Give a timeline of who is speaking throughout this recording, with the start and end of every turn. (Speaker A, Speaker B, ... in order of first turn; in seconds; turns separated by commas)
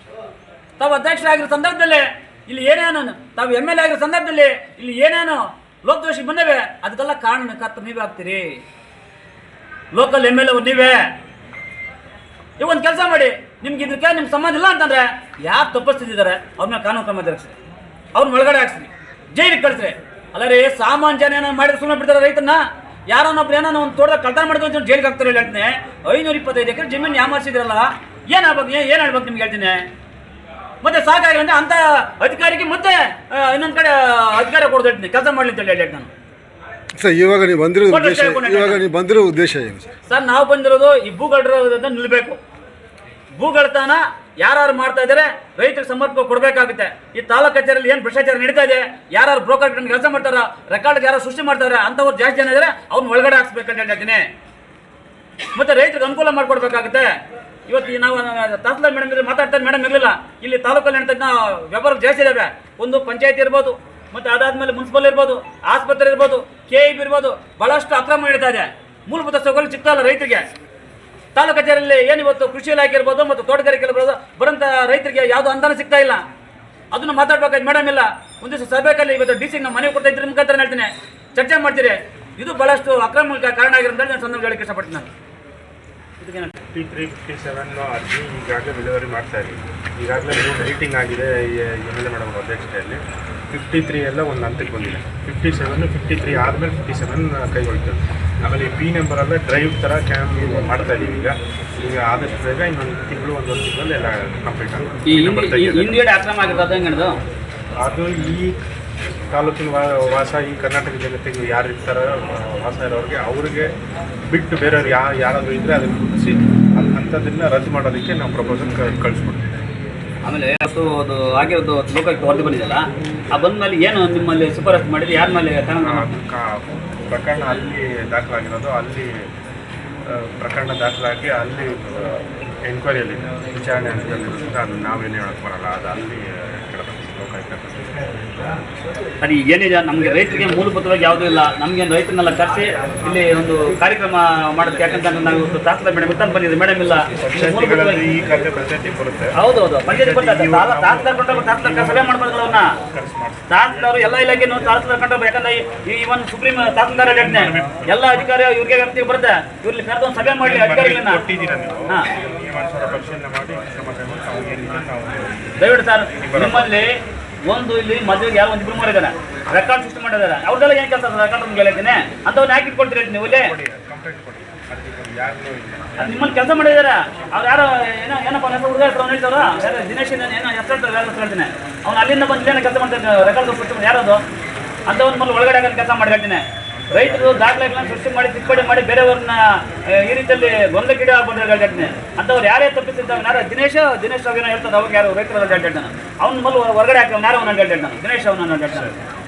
Speaker A: 0.8-8.6, Speaker A: 9.9-11.1, Speaker A: 12.6-17.5, Speaker A: 18.1-29.8, Speaker A: 30.8-36.1, Speaker B: 36.9-39.9, Speaker A: 37.9-38.8, Speaker A: 40.1-42.4, Speaker A: 43.3-54.3, Speaker A: 55.5-57.1, Speaker A: 57.7-70.5, Speaker A: 71.3-76.2, Speaker A: 76.9-85.1, Speaker A: 86.2-86.6, Speaker C: 86.7-106.0, Speaker A: 105.0-107.2, Speaker C: 107.8-108.6, Speaker C: 109.3-113.7, Speaker C: 114.3-119.5, Speaker A: 120.2-126.0, Speaker C: 125.8-129.2, Speaker C: 130.1-138.5, Speaker A: 139.2-148.1, Speaker C: 147.2-149.3, Speaker A: 149.3-152.7, Speaker C: 149.8-154.0, Speaker A: 153.5-161.2, Speaker C: 157.2-158.2, Speaker C: 160.4-165.6, Speaker A: 165.6-166.9, Speaker C: 166.2-166.8, Speaker A: 167.5-173.5, Speaker C: 173.2-176.2, Speaker A: 176.0-184.2, Speaker A: 184.9-198.9, Speaker C: 186.9-187.2